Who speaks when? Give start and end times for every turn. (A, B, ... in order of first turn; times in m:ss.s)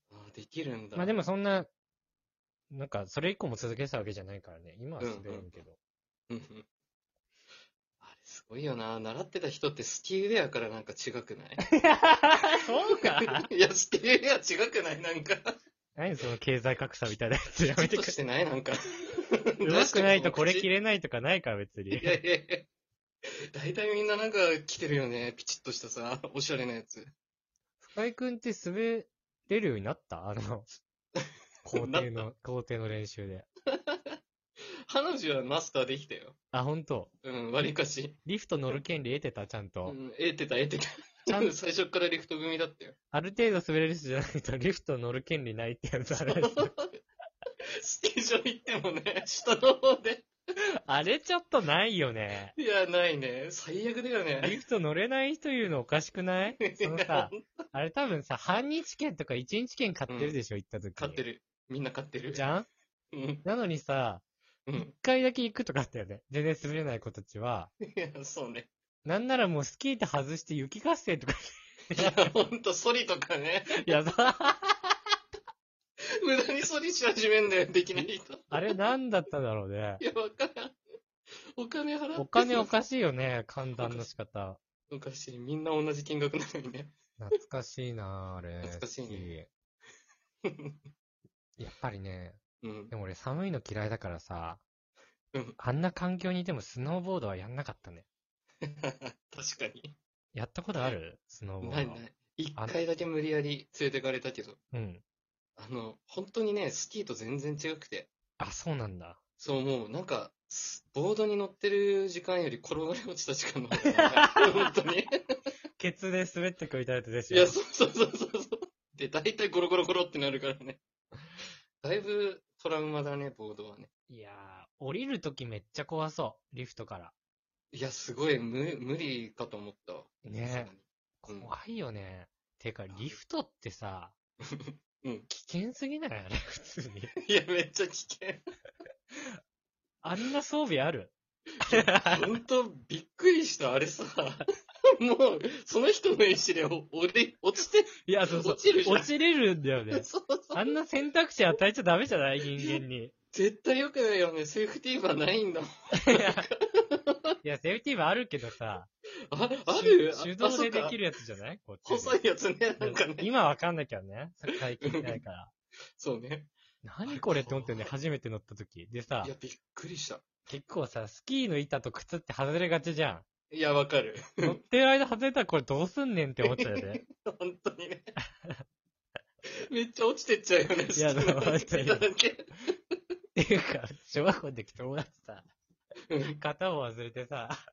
0:00.1-0:01.2 A
0:01.0-0:01.7 B
0:02.7-0:05.8 B
0:05.0-0:05.5 A
0:06.3-0:06.7 A
0:08.0-0:11.7 A
0:11.6-0:13.5 B
0:13.4-0:15.5 A
0:16.0-0:18.2 B
0:17.8-0:20.7 A
0:19.6-0:22.2 B
0:21.9-0:22.7 A
0:23.5-0:27.1 A
0:27.8-0:30.7 B
0:31.2-0:32.3 A
0:31.6-0:33.5 B
0:33.7-0:34.2 A
0:34.9-0:36.4 A
0:36.5-0:37.1 B
0:37.2-0:38.2 A
0:38.3-0:40.0 B
0:39.9-0:43.0 A
0:43.1-0:46.7 B
0:46.2-0:47.0 A
0:47.8-0:50.3 A
0:50.9-0:52.6 B
0:52.6-0:54.6 A
0:54.4-1:01.2 B
0:56.6-0:57.4 A
1:00.1-1:00.4 A
1:01.0-1:02.5 A
1:02.3-1:02.7 B
1:03.1-1:03.4 A
1:03.4-1:04.2 B
1:04.8-1:07.7 B
1:07.8-1:08.7 A
1:09.0-1:12.3 B
1:11.9-1:14.0 A
1:13.8-1:14.8 B
1:16.2-1:18.7 A
1:18.0-1:20.0 B
1:20.0-1:20.8 A
1:21.6-1:22.7 A
1:22.2-1:24.6 B
1:23.8-1:24.1 A
1:24.9-1:27.0 A
1:27.2-1:29.5 B
1:28.6-1:29.3 A
1:30.4-1:30.8 A
1:31.6-1:32.4 B
1:32.6-1:32.9 A
1:32.9-1:34.6 B
1:35.6-1:38.1 B
1:38.6-1:40.0 A
1:40.3-1:42.0 B
1:41.6-1:44.6 A
1:44.7-1:45.0 B
1:45.6-1:48.1 A
1:48.4-1:49.2 B
1:49.4-1:55.1 A
1:54.0-1:54.7 B
1:55.8-1:57.6 B
1:57.3-2:00.8 A
2:01.8-2:03.9 A
2:04.1-2:07.1 B
2:07.7-2:11.5 A
2:10.2-2:10.7 B
2:11.2-2:14.1 B
2:14.4-2:15.3 A
2:15.3-2:17.1 B
2:17.2-2:18.4 A
2:20.0-2:22.3 B
2:21.6-2:24.5 A
2:25.0-2:29.1 A
2:28.1-2:33.1 B
2:29.9-2:30.6 A
2:33.3-2:37.3 A
2:36.0-2:36.5 B
2:37.4-2:38.9 B
2:39.3-2:41.0 A
2:39.7-2:42.2 B
2:41.9-2:43.3 A
2:42.8-2:45.5 B
2:44.8-2:45.2 A
2:46.0-2:46.5 A
2:46.8-2:49.3 B
2:47.1-2:47.9 A
2:49.2-2:50.2 A
2:50.5-2:53.2 B
2:53.5-2:54.6 A
2:54.4-2:57.0 B
2:56.4-2:58.1 A
2:59.7-3:02.7 A
3:01.0-3:02.1 B
3:03.4-3:05.5 B
3:06.1-3:06.4 A
3:06.4-3:07.6 B